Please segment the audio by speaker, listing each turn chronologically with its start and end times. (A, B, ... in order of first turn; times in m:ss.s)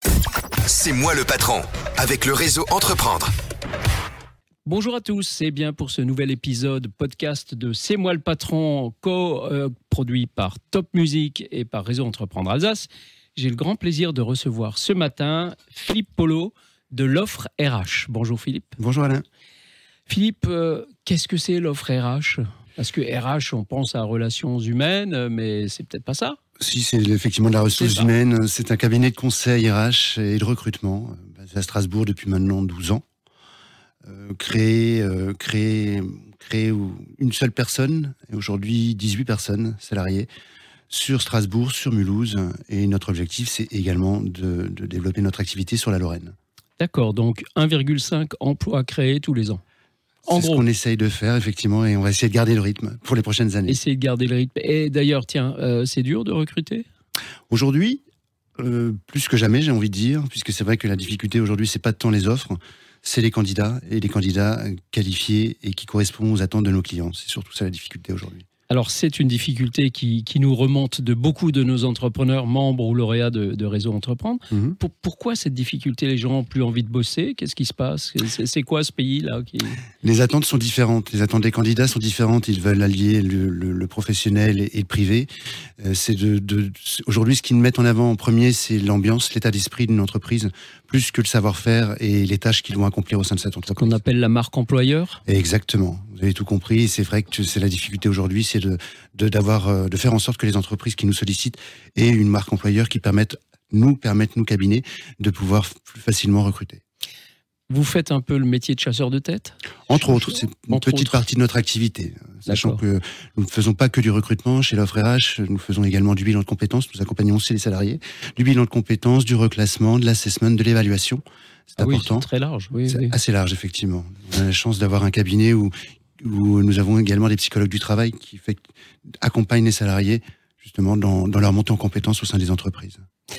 0:00.7-0:03.3 A
0:04.7-0:18.8 B
0:18.8-0:19.2 C
0:20.1-0:26.4 B
0:26.6-0:33.0 C
0:27.7-0:28.1 B
0:34.1-0:40.3 C
0:40.9-0:46.3 C
0:46.8-0:49.6 B
0:50.2-0:53.8 C
0:50.3-0:50.7 B
0:53.7-0:56.8 B
0:57.5-0:58.0 C
0:58.6-1:08.4 C
1:08.7-1:19.8 B
1:14.5-1:14.8 C
1:20.0-1:25.3 C
1:25.8-1:34.0 C
1:33.8-1:35.2 B
1:35.3-1:46.8 C
1:47.7-1:51.2 B
1:49.9-2:02.3 C
1:52.5-1:52.8 B
2:01.8-2:03.2 B
2:02.9-2:08.6 C
2:09.2-2:13.0 C